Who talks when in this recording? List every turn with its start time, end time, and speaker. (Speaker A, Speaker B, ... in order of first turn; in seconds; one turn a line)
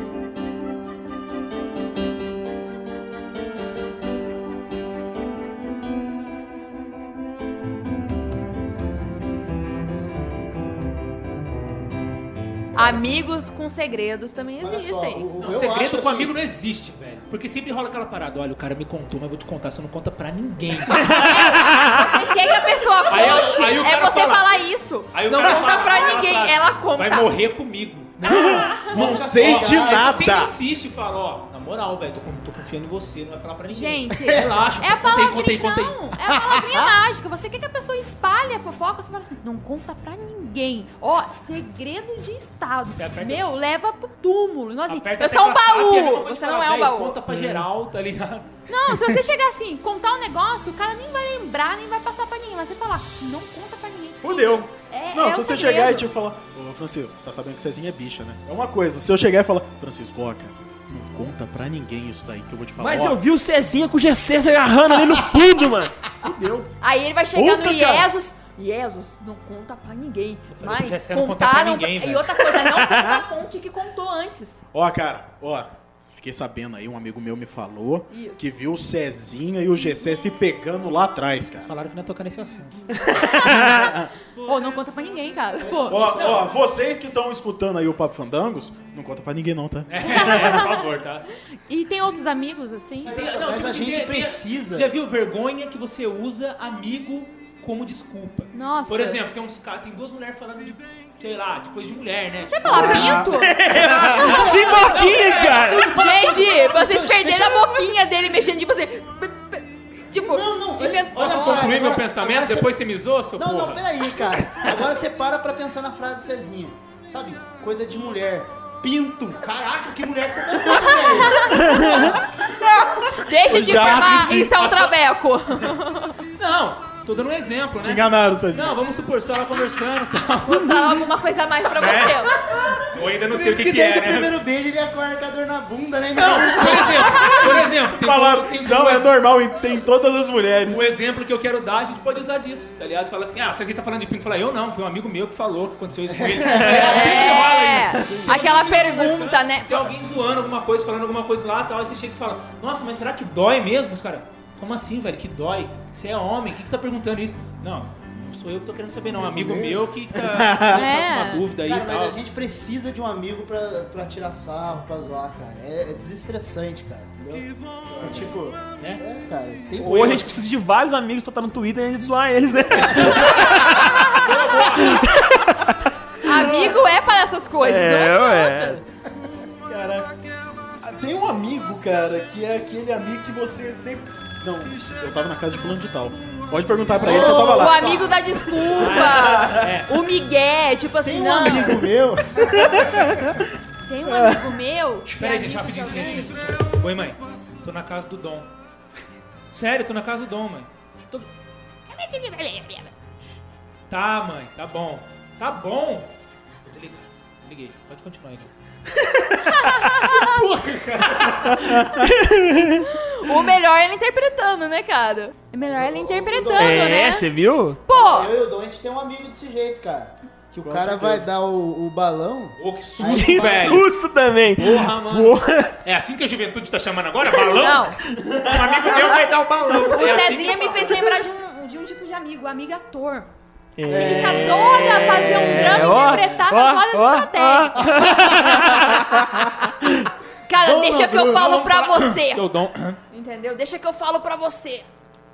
Speaker A: 12.7-15.2
Speaker B: 14.6-16.3
Speaker C: 15.4-21.3
Speaker D: 20.9-22.0
Speaker A: 21.1-27.3
Speaker C: 23.1-24.5
Speaker C: 25.1-28.2
Speaker B: 25.5-26.2
Speaker B: 28.2-30.1
Speaker D: 28.3-28.7
Speaker E: 28.3-30.5
Speaker A: 28.5-29.0
Speaker C: 29.2-36.0
Speaker A: 33.7-47.2
Speaker B: 36.3-36.9
Speaker C: 43.0-43.4
Speaker C: 44.9-48.5
Speaker E: 47.4-47.6
Speaker A: 48.7-56.1
Speaker D: 54.2-54.7
Speaker E: 55.1-63.2
Speaker D: 62.8-66.7
Speaker A: 66.8-74.6
Speaker E: 67.3-68.1
Speaker C: 70.5-72.6
Speaker D: 72.9-73.2
Speaker E: 74.7-81.7
Speaker A: 78.1-78.5
Speaker C: 81.6-82.8
Speaker D: 82.9-83.9
Speaker A: 83.2-83.5
Speaker E: 83.2-84.1
Speaker A: 84.4-86.2
Speaker B: 85.6-86.4
Speaker E: 85.9-90.5
Speaker C: 86.2-86.5
Speaker C: 89.9-91.3
Speaker A: 90.0-90.9
Speaker A: 91.7-93.2
Speaker B: 93.0-94.9
Speaker C: 93.1-103.0
Speaker A: 98.5-99.2
Speaker A: 102.5-105.0
Speaker B: 102.7-103.3
Speaker D: 102.7-106.0
Speaker B: 104.4-107.9
Speaker C: 104.5-105.7
Speaker A: 105.9-111.8
Speaker B: 110.1-112.7
Speaker C: 111.2-113.9
Speaker B: 113.4-122.4
Speaker A: 121.2-126.2
Speaker D: 121.6-122.0
Speaker E: 123.4-124.6
Speaker C: 124.5-125.0
Speaker C: 126.4-131.1
Speaker E: 127.8-128.8
Speaker A: 130.5-132.4
Speaker C: 131.8-134.4
Speaker B: 132.5-137.5
Speaker C: 136.2-139.2
Speaker E: 137.9-140.9
Speaker C: 140.7-162.2
Speaker B: 146.1-147.4
Speaker A: 146.7-149.9
Speaker B: 148.0-148.3
Speaker B: 159.1-160.9
Speaker A: 160.7-161.4
Speaker B: 161.6-170.3
Speaker C: 167.9-169.0
Speaker D: 169.8-175.8
Speaker C: 169.8-170.2
Speaker B: 172.7-173.6
Speaker A: 173.6-174.2
Speaker C: 173.6-175.1
Speaker A: 176.2-178.8
Speaker B: 176.3-176.8
Speaker D: 177.6-178.8
Speaker E: 179.7-180.1
Speaker E: 180.8-188.1
Speaker B: 187.0-188.4
Speaker A: 187.0-191.9
Speaker C: 188.8-189.9
Speaker E: 188.8-189.7
Speaker B: 191.0-193.3
Speaker E: 192.8-193.2
Speaker A: 193.9-196.4
Speaker C: 195.1-198.5
Speaker C: 199.5-201.3
Speaker A: 201.9-202.9
Speaker C: 203.9-206.1
Speaker C: 206.7-208.5
Speaker A: 209.4-210.4
Speaker B: 210.1-211.8
Speaker D: 211.8-212.9
Speaker A: 212.8-217.3
Speaker B: 215.6-217.0
Speaker D: 216.6-217.8
Speaker A: 217.8-218.3
Speaker B: 217.9-223.8
Speaker E: 220.6-221.3
Speaker C: 222.6-223.9
Speaker D: 223.1-225.8
Speaker C: 224.5-231.2
Speaker A: 227.4-228.0
Speaker E: 228.5-229.8
Speaker A: 229.8-233.3
Speaker D: 233.8-240.1
Speaker B: 233.9-234.5
Speaker A: 233.9-237.8
Speaker B: 237.8-239.7
Speaker A: 240.5-242.4
Speaker B: 240.6-241.6
Speaker C: 241.4-243.0
Speaker A: 243.1-244.9